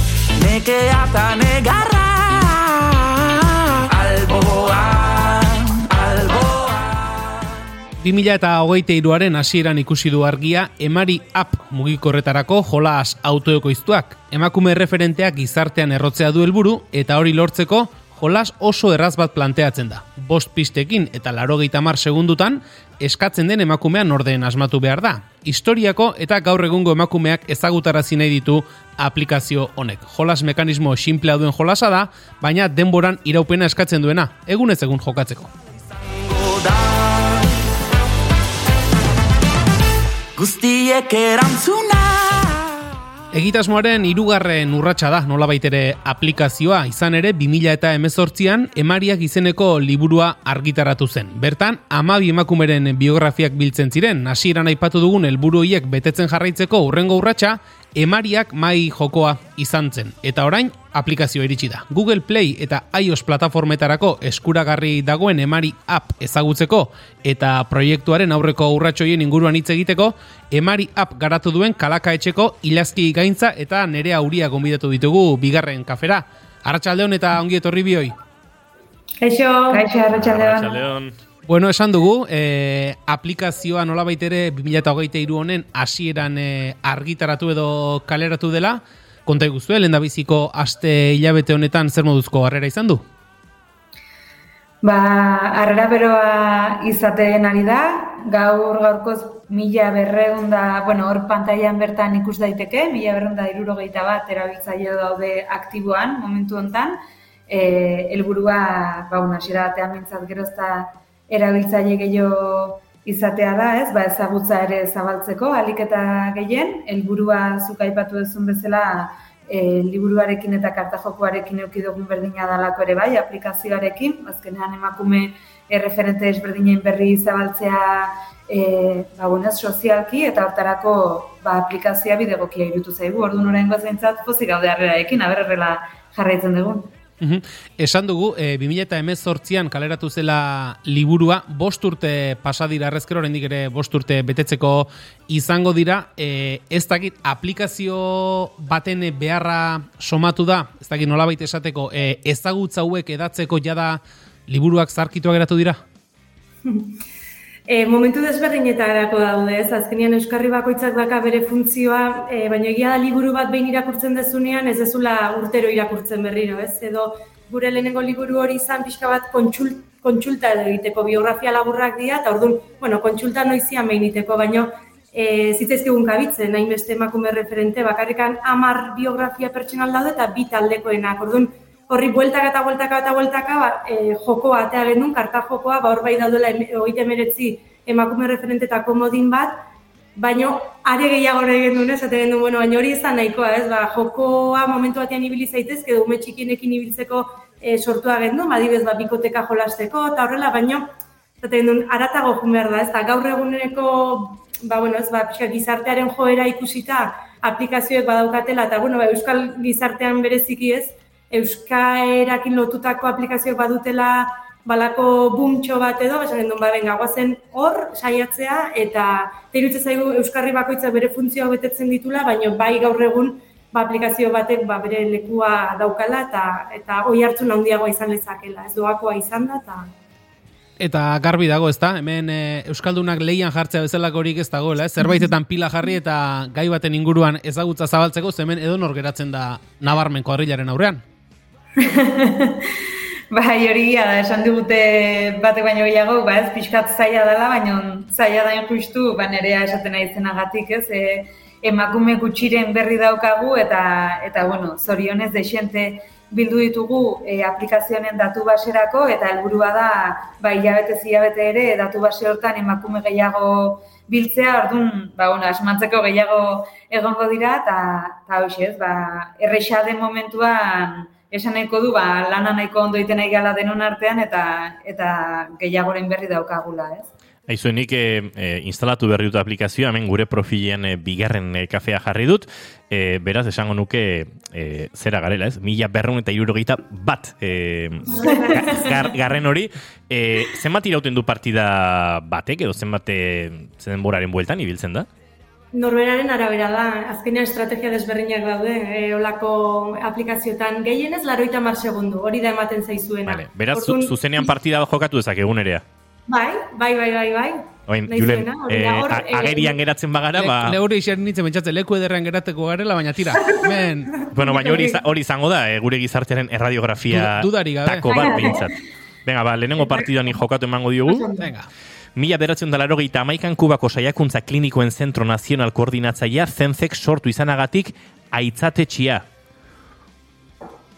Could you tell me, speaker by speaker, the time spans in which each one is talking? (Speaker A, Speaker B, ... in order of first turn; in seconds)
Speaker A: 0.3-7.0, 40.4-42.7
Speaker B: 8.0-35.5, 43.3-78.1, 81.5-93.0, 137.2-155.8, 230.8-241.0, 310.3-314.2, 317.1-318.5, 321.4-321.7
Speaker C: 79.2-79.8, 156.6-157.0, 157.7-189.6, 190.1-200.8, 201.4-229.9, 288.1-289.0, 295.7-304.5, 306.3-309.8, 313.3-315.0, 318.2-318.7, 319.8-320.1, 321.1-321.5
Speaker D: 79.7-80.8, 94.8-107.0, 107.5-136.9, 241.8-242.8, 243.3-277.1
Speaker E: 80.1-81.1, 277.5-295.1, 303.3-305.8, 307.9-310.8, 314.3-321.2, 322.1-329.2